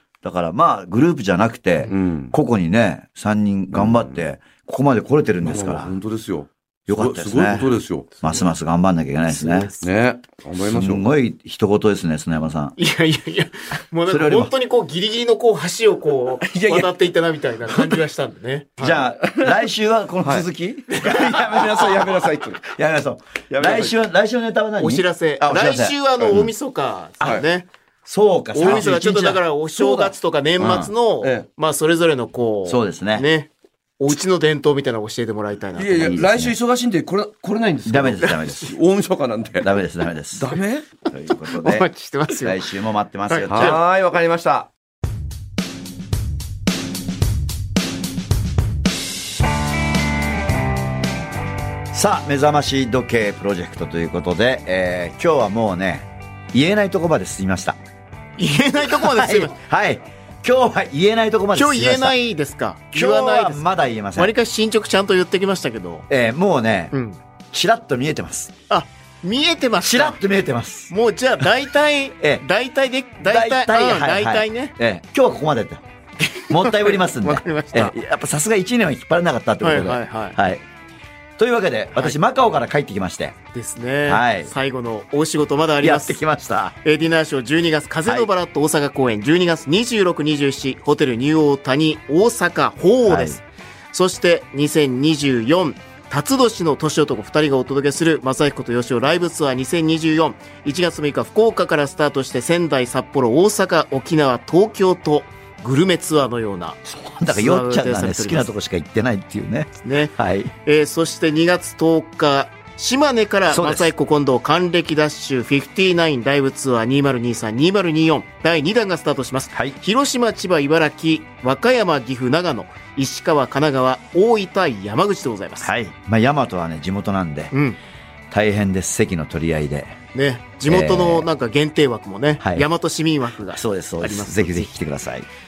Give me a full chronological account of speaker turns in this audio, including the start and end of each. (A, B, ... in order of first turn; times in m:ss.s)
0:00.2-0:05.9 A
0:01.9-0:02.3 B
0:03.7-0:04.2 B
0:05.4-0:08.1 B
0:06.9-0:07.7 A
0:08.2-0:09.7 A
0:09.3-0:09.8 C
0:09.8-0:11.1 B
0:10.6-0:12.8 A
0:12.8-0:19.0 C
0:14.1-0:14.5 A
0:16.4-0:16.9 B
0:17.7-0:18.0 B
0:18.8-0:26.4 A
0:19.2-0:19.6 B
0:20.2-0:22.6 B
0:23.5-0:24.0 B
0:24.8-0:27.7 C
0:28.0-0:30.9 A
0:28.5-0:36.2 C
0:28.6-0:28.9 B
0:32.6-0:33.3 A
0:35.8-0:39.7 B
0:36.0-0:36.5 A
0:37.8-0:38.7 A
0:38.2-0:38.6 C
0:39.6-0:40.5 A
0:40.4-0:40.8 B
0:41.1-0:41.9 A
0:41.5-0:42.6 C
0:42.4-0:43.8 A
0:43.3-0:43.8 C
0:43.5-0:44.7 B
0:51.9-0:57.8 A
0:58.4-0:59.5 C
0:58.9-1:02.2 A
1:01.5-1:03.6 C
1:02.9-1:04.3 A
1:04.1-1:06.0 C
1:06.1-1:06.9 A
1:06.9-1:07.2 C
1:07.5-1:08.5 A
1:08.7-1:10.2 C
1:09.8-1:10.9 A
1:10.9-1:14.7 C
1:13.2-1:15.8 A
1:16.2-1:18.0 C
1:16.5-1:20.6 A
1:19.6-1:20.4 C
1:21.4-1:23.4 A
1:23.5-1:26.2 C
1:24.0-1:24.5 A
1:25.8-1:26.7 A
1:26.8-1:48.5 C
1:33.0-1:33.4 A
1:46.8-1:50.5 A
1:49.8-1:50.1 C
1:50.6-2:05.7 C
1:53.5-1:53.9 A
2:05.6-2:07.5 A
2:07.5-2:07.8 C
2:08.3-2:10.0 A
2:10.1-2:14.7 C
2:10.6-2:11.3 A
2:12.4-2:12.7 A
2:13.5-2:15.3 A